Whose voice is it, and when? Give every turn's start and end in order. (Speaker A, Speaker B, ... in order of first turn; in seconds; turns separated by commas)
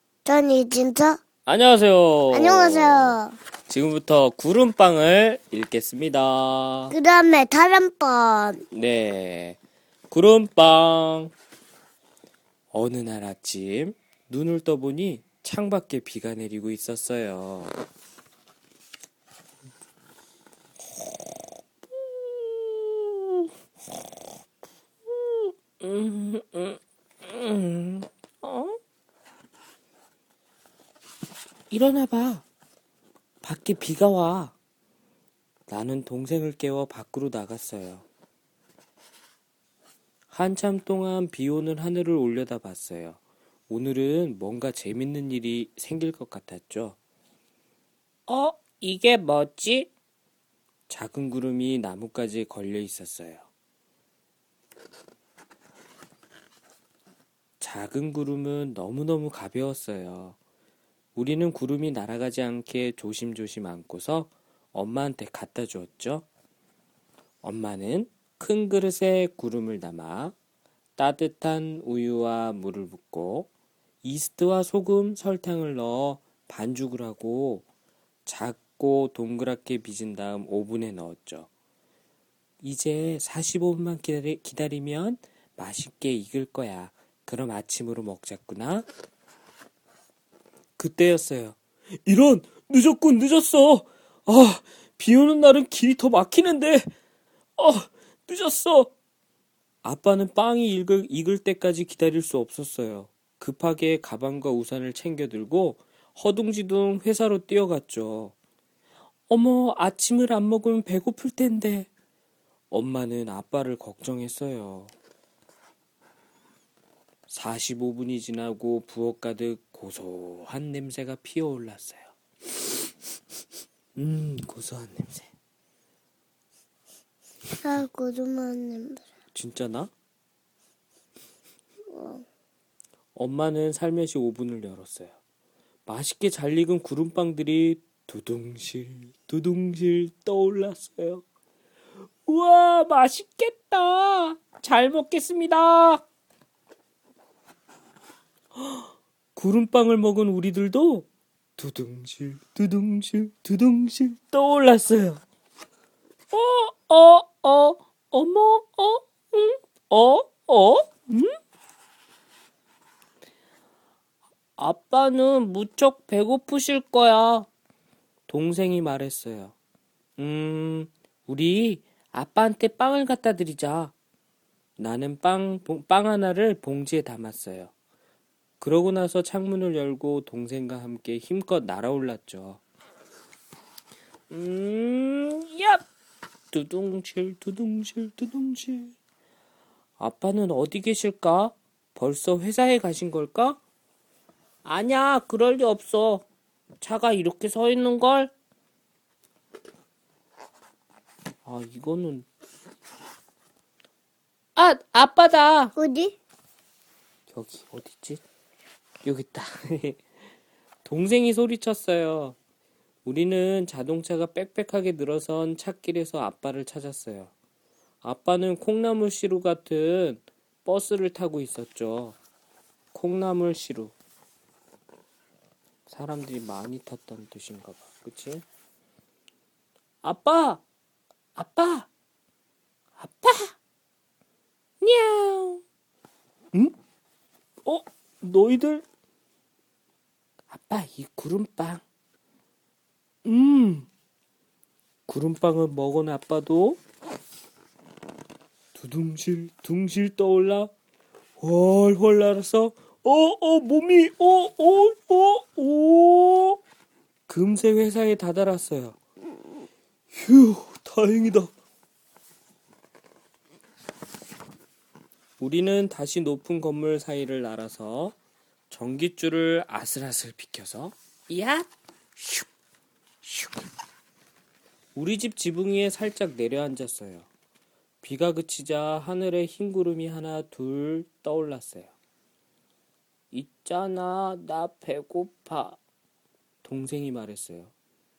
Speaker A: 0.2-1.2, Speaker B: 1.4-3.2, Speaker A: 2.3-3.4, Speaker B: 3.7-7.0, Speaker A: 6.9-8.7, Speaker B: 8.7-9.6, Speaker B: 10.1-11.3, Speaker B: 12.7-17.7, Speaker B: 21.9-23.4, Speaker B: 25.1-28.8, Speaker B: 31.7-32.5, Speaker B: 33.4-34.5, Speaker B: 35.7-38.0, Speaker B: 40.3-47.0, Speaker B: 48.3-49.9, Speaker B: 50.9-53.4, Speaker B: 57.6-60.4, Speaker B: 61.1-66.3, Speaker B: 67.4-70.3, Speaker B: 71.0-73.5, Speaker B: 74.0-77.7, Speaker B: 78.2-81.5, Speaker B: 82.6-88.9, Speaker B: 90.8-96.9, Speaker B: 97.6-98.9, Speaker B: 99.8-108.3, Speaker B: 109.3-111.9, Speaker B: 112.7-114.9, Speaker B: 117.3-122.7, Speaker B: 124.0-125.3, Speaker A: 127.6-129.1, Speaker B: 129.3-129.9, Speaker A: 131.9-132.2, Speaker B: 133.1-135.2, Speaker B: 135.8-141.2, Speaker B: 142.2-146.0, Speaker B: 148.6-155.2, Speaker B: 156.3-161.3, Speaker B: 164.6-167.5, Speaker B: 168.3-169.5, Speaker B: 170.2-173.9, Speaker B: 174.8-177.7, Speaker B: 178.6-182.6, Speaker B: 184.3-185.8, Speaker B: 186.5-188.9, Speaker B: 190.0-193.6, Speaker B: 194.6-196.2, Speaker B: 196.8-198.3, Speaker B: 201.4-202.3, Speaker B: 204.6-205.7, Speaker A: 205.8-206.2, Speaker B: 207.3-208.2, Speaker B: 209.0-210.0, Speaker B: 210.8-212.4, Speaker B: 213.0-217.3, Speaker B: 218.0-222.2, Speaker B: 222.9-223.9, Speaker B: 225.9-228.4, Speaker B: 230.0-230.6, Speaker B: 231.3-231.9, Speaker B: 233.0-233.6, Speaker B: 234.8-235.6, Speaker B: 237.6-238.8, Speaker B: 240.5-241.8, Speaker B: 243.2-243.9, Speaker B: 245.1-246.8, Speaker B: 248.7-250.7, Speaker B: 251.4-256.6, Speaker B: 257.3-259.0, Speaker B: 260.1-261.5, Speaker B: 265.4-268.1, Speaker B: 268.7-272.5, Speaker B: 273.2-273.5, Speaker B: 274.9-277.3, Speaker B: 278.0-281.9, Speaker B: 283.3-285.8, Speaker B: 286.6-287.7